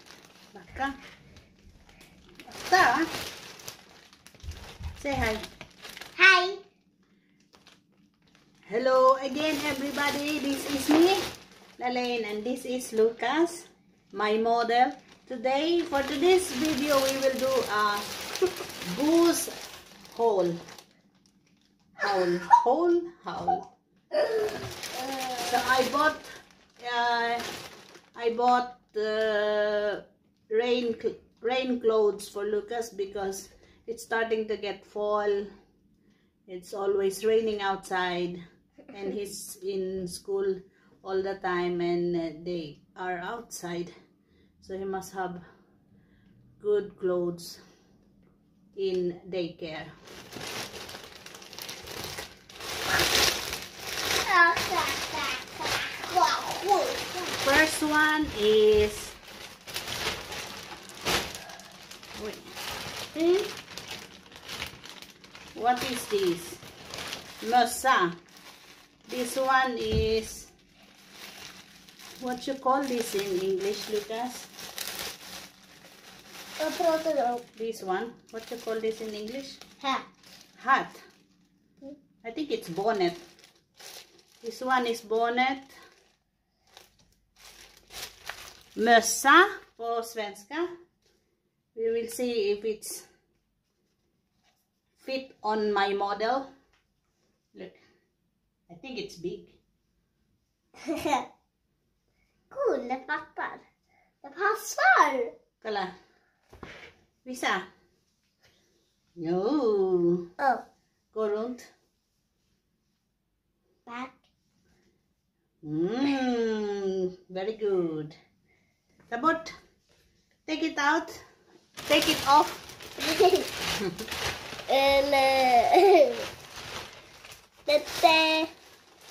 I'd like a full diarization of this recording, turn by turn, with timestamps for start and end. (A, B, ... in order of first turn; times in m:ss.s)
0:00.5-0:00.9 A
0:02.5-0:03.1 A
0:05.0-0:05.4 A
0:06.2-0:06.6 B
0:08.7-0:11.2 A
0:11.8-0:18.1 A
0:18.8-0:19.5 A
0:20.1-0:20.6 A
0:22.0-0:23.6 A
0:24.2-0:25.6 B
0:25.4-0:26.3 A
0:26.8-0:27.4 A
0:28.2-0:35.5 A
0:36.5-0:43.9 A
0:44.6-0:45.4 A
0:46.6-0:47.6 A
0:48.8-0:49.9 A
0:54.2-0:57.4 B
0:57.4-0:59.2 A
1:02.2-1:02.5 A
1:03.2-1:03.5 B
1:05.6-1:06.6 A
1:07.4-1:08.2 A
1:09.1-1:10.5 A
1:12.2-1:14.5 A
1:16.6-1:17.4 B
1:17.6-1:19.6 A
1:19.8-1:20.1 B
1:20.6-1:21.0 A
1:22.2-1:23.2 A
1:24.4-1:25.7 A
1:28.8-1:30.7 A
1:31.8-1:33.0 A
1:35.0-1:36.5 A
1:37.5-1:37.8 A
1:38.7-1:39.6 A
1:40.8-1:41.3 B
1:42.5-1:43.6 B
1:44.2-1:45.3 B
1:45.6-1:45.9 A
1:47.2-1:47.6 A
1:49.2-1:50.3 A
1:50.4-1:50.6 B
1:51.1-1:51.6 A
1:53.9-1:54.2 B
1:55.6-1:58.2 A
1:59.1-1:59.5 A
2:00.5-2:01.1 A
2:01.9-2:02.6 A
2:03.0-2:03.5 B
2:04.7-2:06.3 B
2:07.7-2:08.5 B